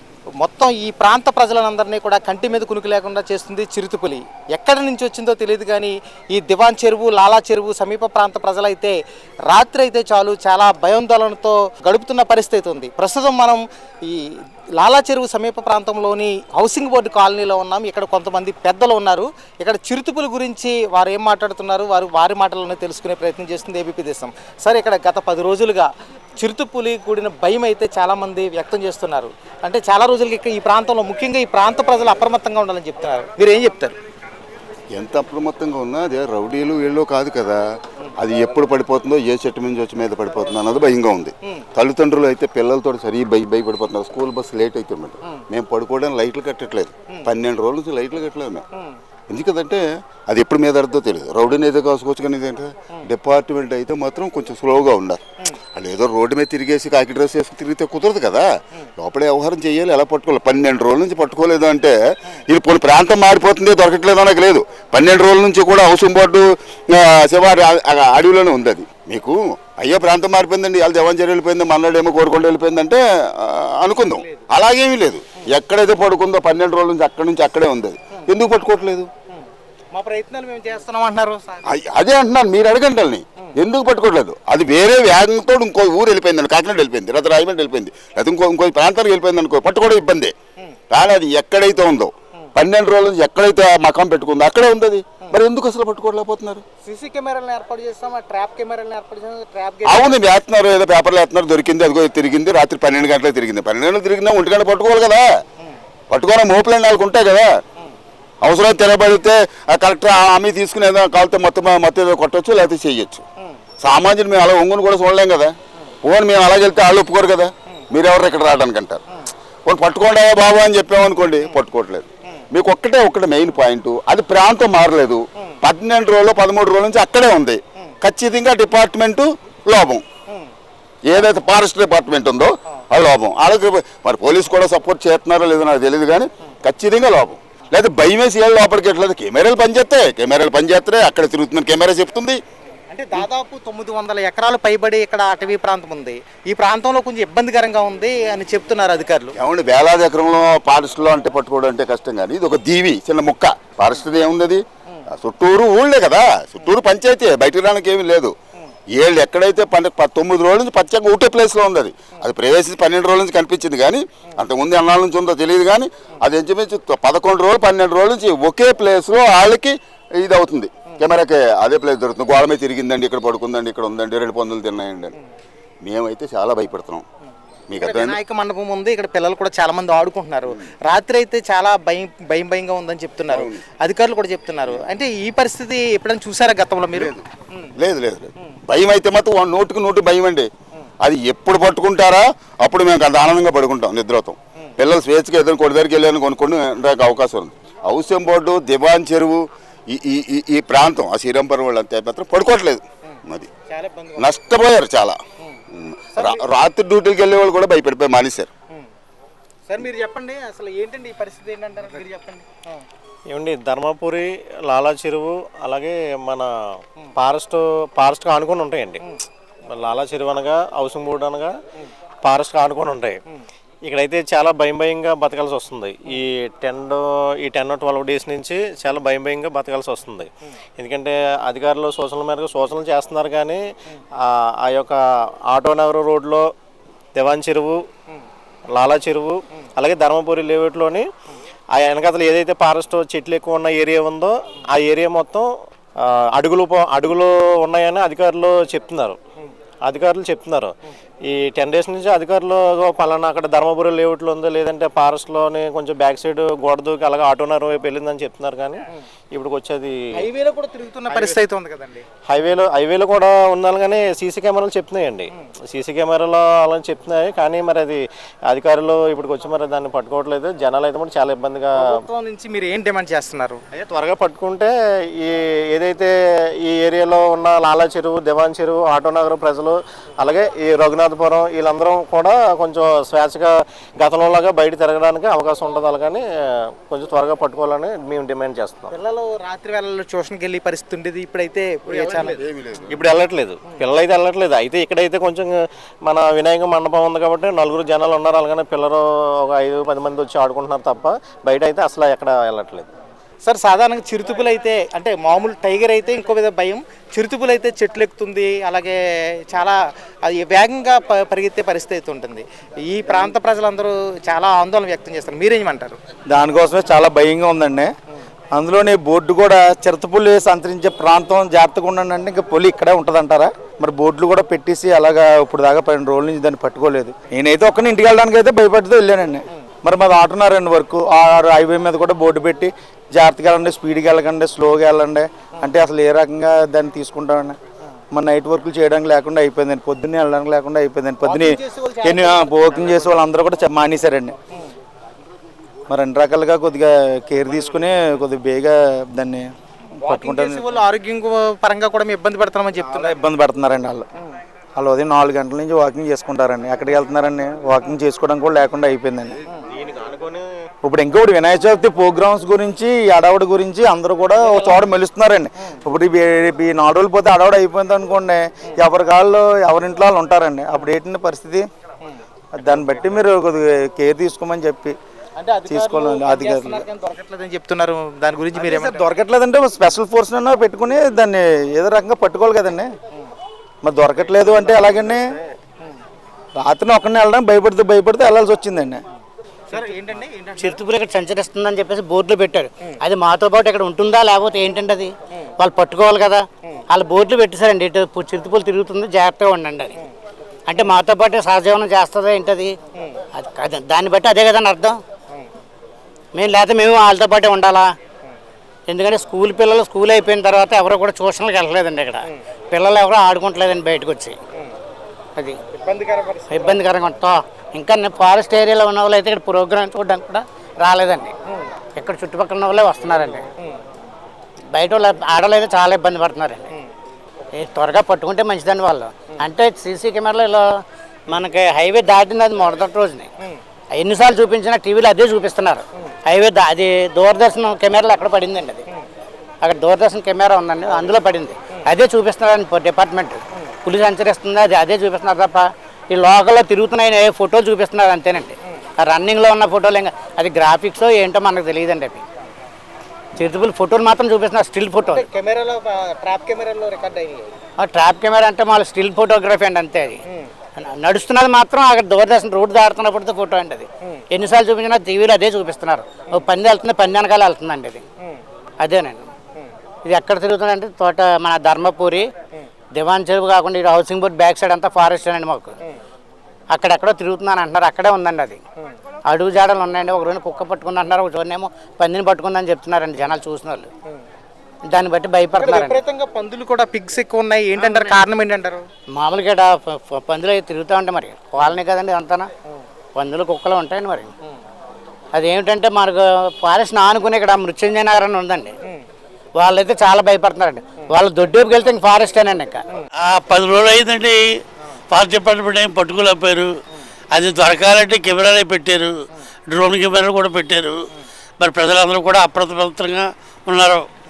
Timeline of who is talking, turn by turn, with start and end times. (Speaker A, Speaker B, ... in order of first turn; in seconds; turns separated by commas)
Speaker A: 0.4-34.0, Speaker B: 34.9-37.6, Speaker B: 38.2-48.6, Speaker B: 49.3-79.1, Speaker A: 74.0-74.5, Speaker A: 79.3-81.6, Speaker B: 81.6-90.3, Speaker B: 90.9-96.6, Speaker A: 96.8-100.2, Speaker B: 99.8-105.3, Speaker B: 106.1-107.5, Speaker B: 108.4-113.2, Speaker B: 113.8-119.0, Speaker B: 119.7-130.0, Speaker B: 131.1-142.4, Speaker A: 142.9-149.3, Speaker B: 149.3-158.3, Speaker B: 158.9-175.2, Speaker B: 175.8-177.0, Speaker B: 177.7-178.2, Speaker A: 177.8-187.1, Speaker B: 183.3-183.6, Speaker B: 186.9-187.2, Speaker B: 187.8-190.5, Speaker B: 191.0-203.5, Speaker A: 203.7-204.5, Speaker B: 204.2-205.2, Speaker B: 205.8-208.5, Speaker A: 206.1-206.4, Speaker A: 209.7-212.8, Speaker C: 213.3-216.5, Speaker C: 217.0-219.1, Speaker C: 219.7-221.5, Speaker C: 222.2-223.2, Speaker C: 223.8-233.6, Speaker C: 234.2-235.0, Speaker C: 235.5-236.5, Speaker C: 237.1-237.8, Speaker C: 238.7-241.0, Speaker C: 241.7-245.4, Speaker C: 246.0-249.2, Speaker C: 249.8-260.3, Speaker A: 260.1-262.0, Speaker C: 261.1-261.4, Speaker C: 262.3-272.0, Speaker A: 271.8-273.6, Speaker C: 273.7-276.1, Speaker C: 276.6-286.2, Speaker C: 286.9-289.0, Speaker A: 288.9-292.4, Speaker B: 291.9-293.0, Speaker C: 292.9-302.9, Speaker A: 303.4-316.0, Speaker D: 316.3-317.9, Speaker D: 318.5-337.6, Speaker D: 338.1-344.4, Speaker A: 341.2-343.2, Speaker D: 345.9-350.8, Speaker A: 350.0-353.1, Speaker D: 352.9-354.1, Speaker D: 354.8-359.4, Speaker C: 359.5-360.5, Speaker D: 360.8-371.6, Speaker D: 372.6-374.9, Speaker A: 375.4-379.0, Speaker D: 375.6-376.8, Speaker D: 378.6-382.9, Speaker D: 383.8-385.3, Speaker C: 384.4-385.1, Speaker D: 386.6-389.0, Speaker A: 389.7-390.8, Speaker E: 390.6-400.0, Speaker E: 400.7-402.7, Speaker A: 402.9-403.2, Speaker E: 403.4-405.0, Speaker E: 406.3-407.9, Speaker E: 408.9-414.4, Speaker A: 415.7-416.8, Speaker E: 416.5-421.3, Speaker E: 422.0-423.5, Speaker E: 424.7-426.7, Speaker E: 427.6-430.7, Speaker E: 431.3-433.3, Speaker E: 433.9-438.9, Speaker E: 439.6-452.2, Speaker E: 453.4-455.3, Speaker A: 455.1-457.5, Speaker E: 457.8-460.2, Speaker E: 460.8-468.0, Speaker E: 468.8-469.3, Speaker E: 470.0-472.2, Speaker E: 472.9-475.8, Speaker E: 476.7-478.6, Speaker E: 479.3-483.9, Speaker E: 484.9-486.0, Speaker A: 485.6-488.8, Speaker E: 487.8-488.2, Speaker E: 489.1-492.5, Speaker E: 493.1-494.3, Speaker E: 495.4-498.7, Speaker E: 499.6-502.8, Speaker F: 503.2-506.7, Speaker F: 507.3-509.1, Speaker F: 509.7-514.1